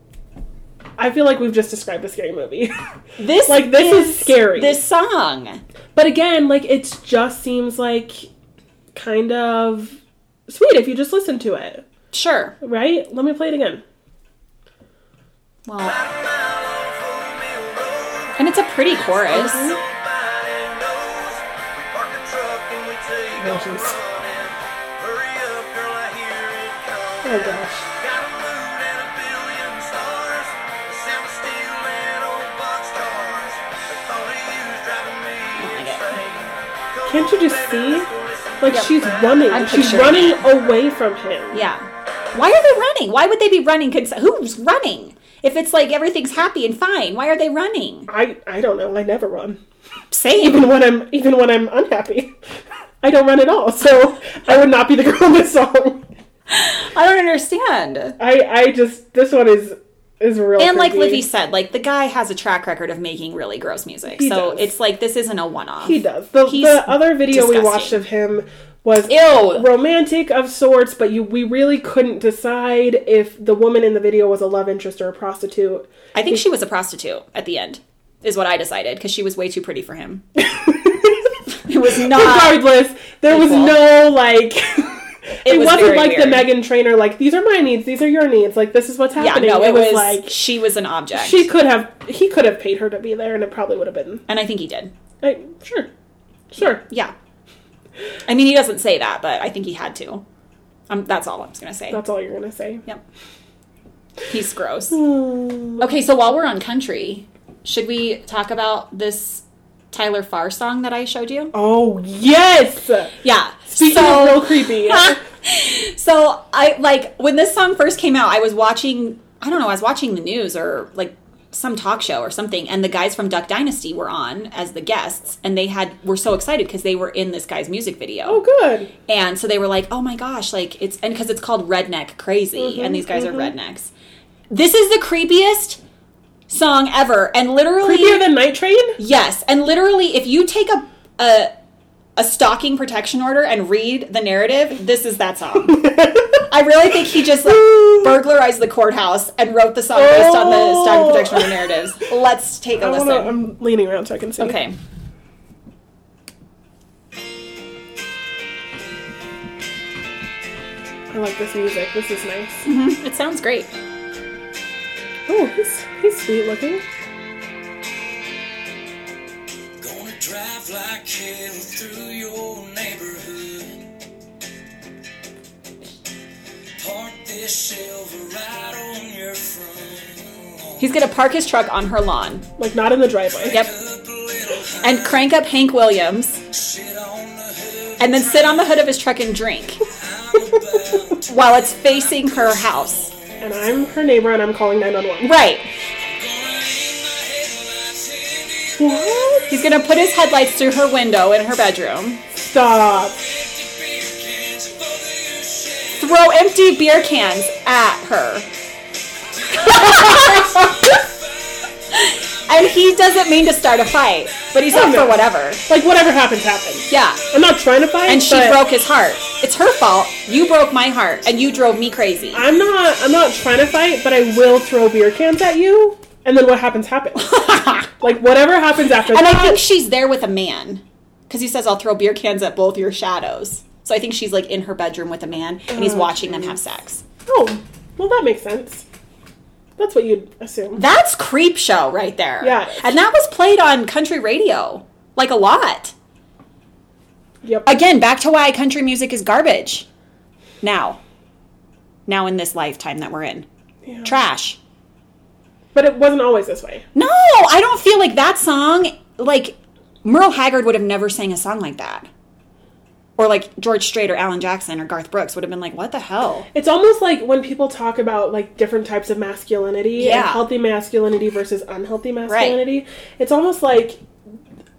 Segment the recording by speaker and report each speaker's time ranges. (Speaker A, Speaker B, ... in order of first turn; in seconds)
Speaker A: 1.0-2.7, 3.5-4.8, 5.9-8.3, 8.9-11.8, 12.6-13.8, 19.3-19.8, 23.4-24.0, 27.2-27.9, 37.0-38.1, 38.6-41.6, 48.1-49.6, 50.3-52.3, 53.0-56.0, 58.2-61.2, 64.1-64.7, 65.8-76.4, 80.4-81.3, 82.0-90.3, 91.1-94.2, 95.2-95.9, 96.5-96.8, 101.9-102.8, 104.9-105.8, 111.5-115.2, 128.2-128.9, 132.6-133.5, 137.8-139.0, 145.7-146.4, 147.5-148.1, 149.9-151.6, 152.8-154.6, 161.1-162.6, 165.3-166.8, 182.6-183.6, 193.4-195.3, 198.8-199.6, 202.3-203.2, 209.6-210.9, 214.7-218.6, 222.3-229.6, 235.7-236.6, 237.2-238.8, 239.8-240.8, 242.4-243.0, 247.4-247.7, 253.8-254.1, 255.7-256.8, 266.5-274.0
Speaker B: 3.2-5.6, 12.1-12.5, 15.7-16.0, 18.4-19.7, 35.5-36.1, 38.7-40.4, 41.5-48.1, 50.1-50.7, 56.5-58.2, 60.6-68.0, 69.1-69.7, 76.1-80.2, 81.5-82.7, 83.3-83.9, 85.4-86.5, 89.2-91.5, 94.3-94.9, 96.6-97.1, 98.3-100.2, 100.9-102.0, 104.3-105.0, 105.8-111.5, 113.2-128.4, 129.1-133.9, 134.5-135.8, 136.5-138.2, 139.0-141.5, 142.2-145.9, 146.5-153.3, 154.4-154.7, 162.6-163.7, 180.8-182.4, 184.8-186.4, 188.0-189.8, 191.2-193.1, 195.2-195.7, 199.5-202.2, 206.0-208.5, 209.5-210.8, 211.9-215.6, 216.9-217.2, 218.1-222.4, 227.2-228.0, 229.1-237.0, 240.8-245.9, 247.7-249.8, 250.6-251.0, 252.1-253.4, 254.0-254.6, 256.9-262.1, 263.2-266.5, 269.9-270.4, 272.3-272.6
Speaker C: 15.8-40.0, 169.8-173.9, 176.8-180.9, 183.5-185.1, 186.5-188.7, 189.9-193.2, 196.0-199.1, 203.1-206.1, 209.4-211.5